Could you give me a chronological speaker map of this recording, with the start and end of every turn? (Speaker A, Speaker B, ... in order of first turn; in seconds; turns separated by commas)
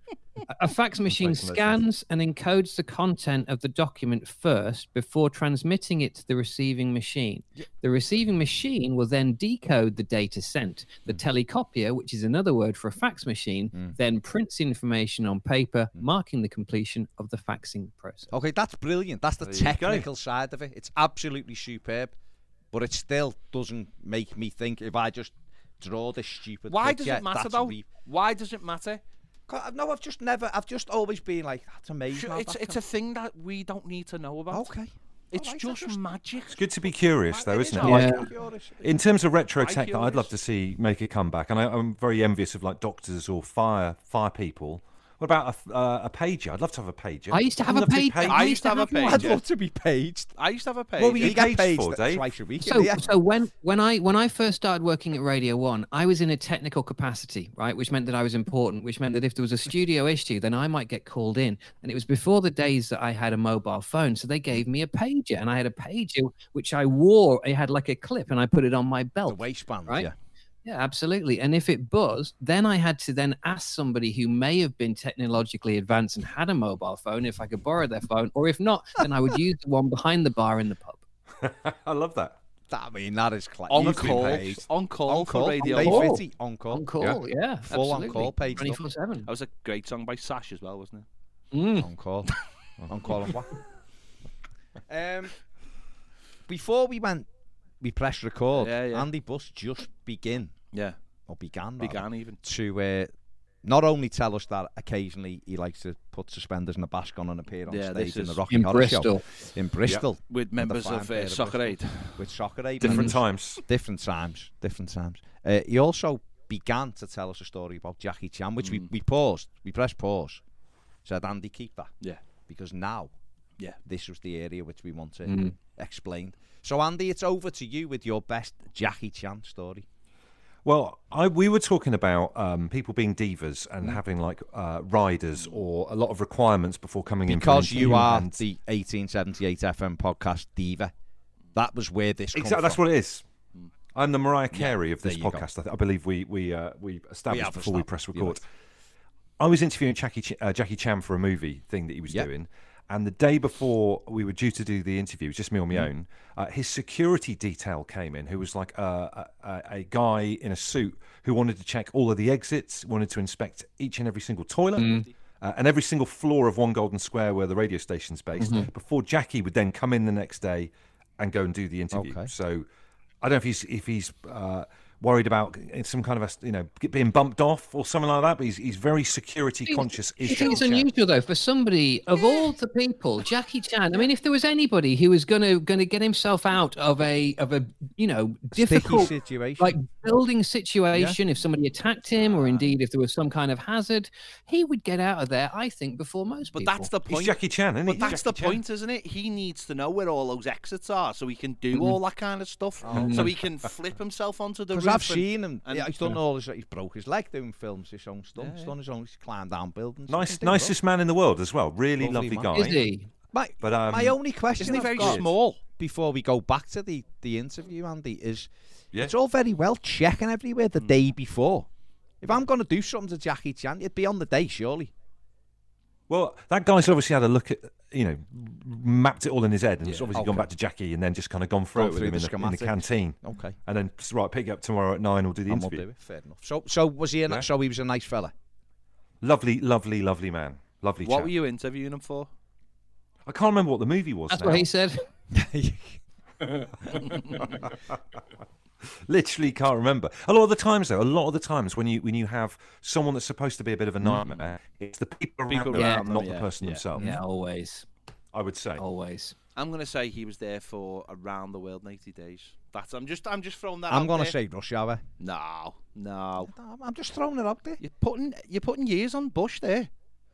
Speaker A: 0.5-18.3, Speaker B: 1.1-1.8, Speaker C: 18.3-22.1, Speaker B: 19.4-20.1, Speaker C: 22.7-27.9, Speaker D: 26.7-29.0, Speaker C: 29.5-32.8, Speaker D: 32.1-34.7, Speaker C: 34.5-36.0, Speaker D: 35.3-38.3, Speaker B: 36.5-38.1, Speaker C: 37.7-38.9, Speaker A: 37.8-38.3, Speaker B: 38.8-48.5, Speaker D: 39.5-40.3, Speaker A: 47.3-49.3, Speaker D: 48.2-49.4, Speaker C: 49.0-50.3, Speaker D: 50.4-51.4, Speaker B: 51.0-52.3, Speaker C: 51.2-53.1, Speaker A: 52.6-70.1, Speaker C: 69.3-70.2, Speaker A: 70.7-81.0, Speaker B: 81.4-82.4, Speaker C: 82.7-86.9, Speaker D: 83.7-86.1, Speaker B: 83.8-84.5, Speaker A: 85.6-89.3, Speaker C: 87.7-88.8, Speaker D: 89.3-91.0, Speaker A: 91.5-91.9, Speaker C: 91.8-93.6, Speaker C: 94.9-95.3, Speaker C: 96.5-97.3, Speaker C: 97.8-100.5, Speaker D: 98.6-99.1, Speaker C: 101.3-103.1, Speaker D: 101.8-102.4, Speaker C: 103.6-120.4, Speaker D: 107.7-108.4, Speaker A: 108.5-109.3, Speaker D: 110.3-112.2, Speaker B: 112.8-113.6, Speaker C: 121.0-121.9, Speaker C: 122.5-123.1, Speaker C: 123.8-129.9, Speaker A: 125.3-125.5, Speaker B: 130.7-138.4, Speaker C: 137.3-140.9, Speaker C: 141.5-142.8, Speaker B: 142.3-143.2, Speaker B: 143.9-148.4, Speaker C: 144.5-145.5, Speaker C: 147.3-148.4, Speaker B: 149.4-172.7, Speaker A: 164.8-165.1, Speaker A: 168.4-168.7, Speaker C: 171.9-172.3, Speaker B: 173.2-180.9, Speaker A: 179.7-196.9, Speaker C: 188.5-189.8, Speaker D: 196.6-205.9, Speaker B: 197.1-198.6, Speaker C: 202.8-203.4, Speaker A: 202.9-203.3, Speaker C: 204.7-210.8, Speaker D: 208.4-208.7, Speaker B: 210.1-212.8, Speaker C: 212.0-212.6, Speaker A: 212.5-213.1, Speaker C: 213.3-221.7, Speaker B: 213.6-215.3, Speaker D: 214.6-215.6, Speaker C: 222.2-224.9, Speaker B: 226.1-235.8, Speaker D: 229.8-230.2, Speaker C: 230.1-230.5, Speaker C: 231.7-233.6, Speaker C: 235.5-238.3, Speaker B: 239.2-241.3, Speaker D: 241.0-242.3, Speaker B: 243.3-244.7, Speaker A: 244.3-245.1, Speaker C: 245.3-246.0, Speaker B: 246.9-247.7, Speaker B: 249.1-257.2, Speaker D: 254.1-254.4, Speaker D: 255.5-256.9, Speaker A: 255.7-256.2, Speaker A: 256.9-257.9, Speaker B: 258.3-258.8, Speaker A: 258.8-259.4, Speaker D: 259.6-264.4, Speaker C: 263.9-265.0, Speaker D: 265.2-266.5, Speaker C: 266.4-267.8, Speaker D: 267.8-269.9